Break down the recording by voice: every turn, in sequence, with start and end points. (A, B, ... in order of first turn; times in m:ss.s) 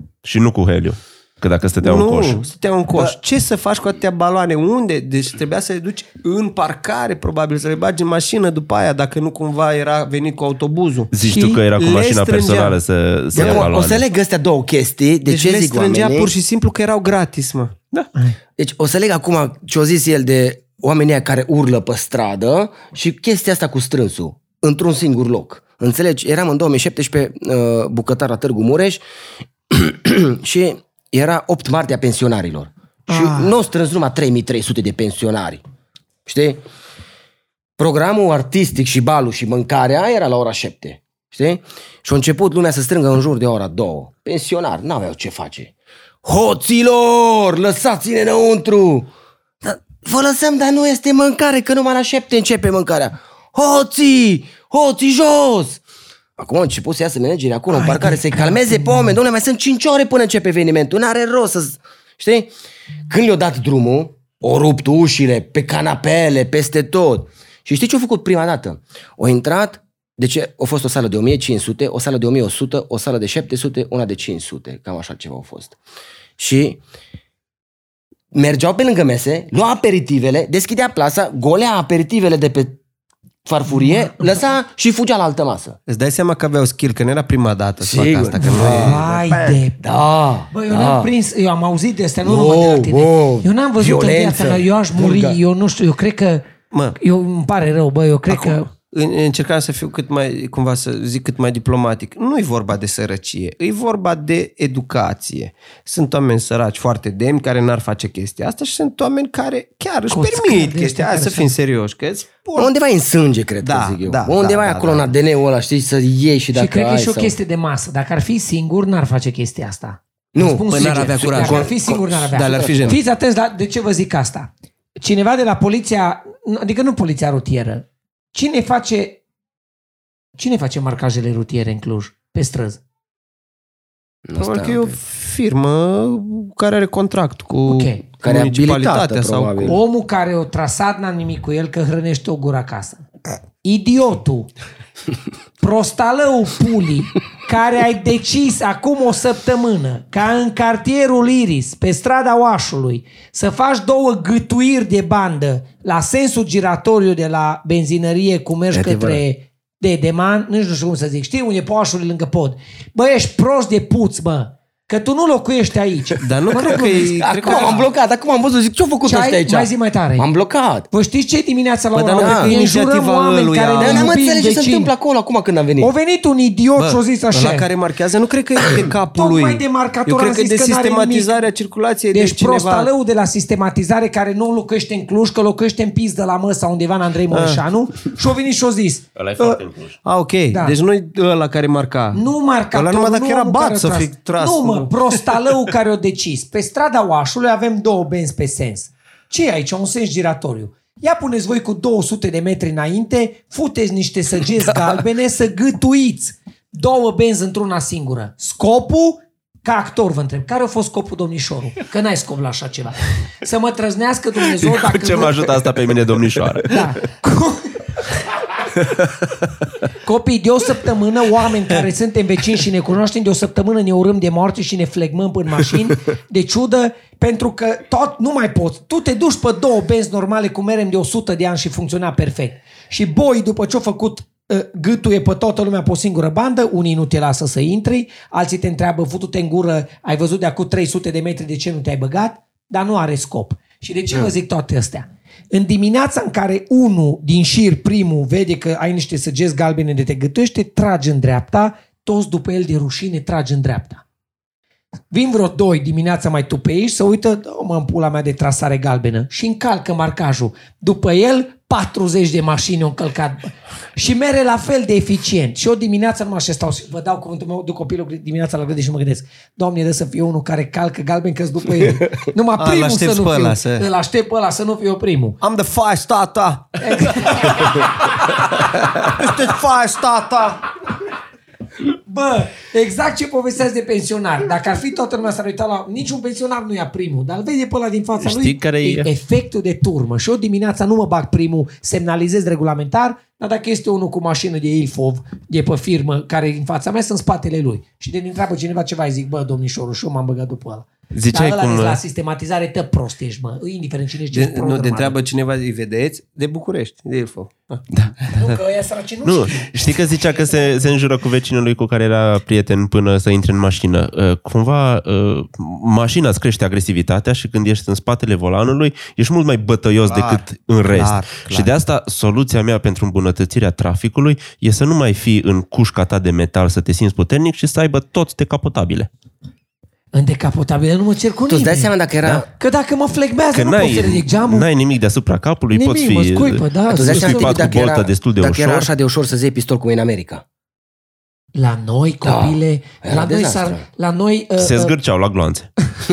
0:00.2-0:02.4 A
0:01.8-0:12.8 B
0:11.1-0:14.0 A
0:13.3-0:16.3 C
0:13.4-0:13.7 B
0:15.2-0:17.8 B
0:18.6-0:29.0 C
0:29.7-0:35.6 C
0:33.1-0:33.5 D
0:36.3-0:36.6 C
0:37.8-0:45.7 C
0:46.2-0:49.1 C
0:49.6-0:55.8 C
0:56.4-1:02.5 C
0:57.7-0:59.2 D
1:03.1-1:15.8 C
1:16.4-1:16.8 C
1:18.3-1:22.8 C
1:23.4-1:25.8 C
1:23.7-1:24.3 D
1:25.9-1:29.6 B
1:27.8-1:29.0 C
1:28.4-1:29.8 D
1:29.8-1:31.1 C
1:30.5-1:38.7 D
1:32.2-1:35.4 C
1:36.7-1:37.0 B
1:38.3-1:52.7 B
1:50.1-1:51.5 D
1:52.6-1:57.4 C
1:53.6-1:55.1 B
1:56.5-2:09.2 D
2:00.3-2:02.9 C
2:00.7-2:01.7 B
2:02.3-2:03.0 B
2:10.4-2:12.8 D
2:14.3-2:15.0 C
2:14.4-2:19.8 B
2:17.7-2:18.0 D
2:18.2-2:19.8 C
2:19.6-2:23.0 D
2:23.6-2:24.5 D
2:25.6-2:47.8 D
2:38.7-2:39.2 C
2:46.2-2:47.8 B
2:46.7-2:50.9 C
2:49.0-2:50.3 D
2:50.9-2:54.9 D
2:51.9-2:54.1 B
2:52.2-2:52.5 C
2:53.8-2:55.9 C
2:55.8-2:57.7 D
2:56.8-3:02.9 B
2:59.1-3:01.4 D
3:02.1-3:09.6 D
3:07.3-3:07.6 B
3:09.2-3:10.0 A
3:10.0-3:15.3 B
3:12.1-3:35.4 D
3:34.6-3:36.9 A
3:36.7-3:37.9 D
3:40.0-4:14.0 D
4:15.1-4:35.4 D
4:32.6-4:33.9 B
4:35.4-4:37.9 B
4:36.8-4:38.4 D
4:38.6-4:40.7 B
4:42.1-5:05.2 D
4:48.2-4:49.1 A
5:01.1-5:02.0 A
5:04.3-5:08.4 B
5:08.3-5:10.9 D
5:09.2-5:29.1 A
5:20.0-5:21.7 B
5:30.1-5:31.9 D
5:31.5-5:32.5 C
5:32.5-5:34.7 D
5:33.5-5:38.9 A
5:35.7-5:37.9 D
5:36.9-5:40.4 C
5:41.6-5:45.0 D
5:42.2-5:43.8 C
5:44.6-5:45.7 A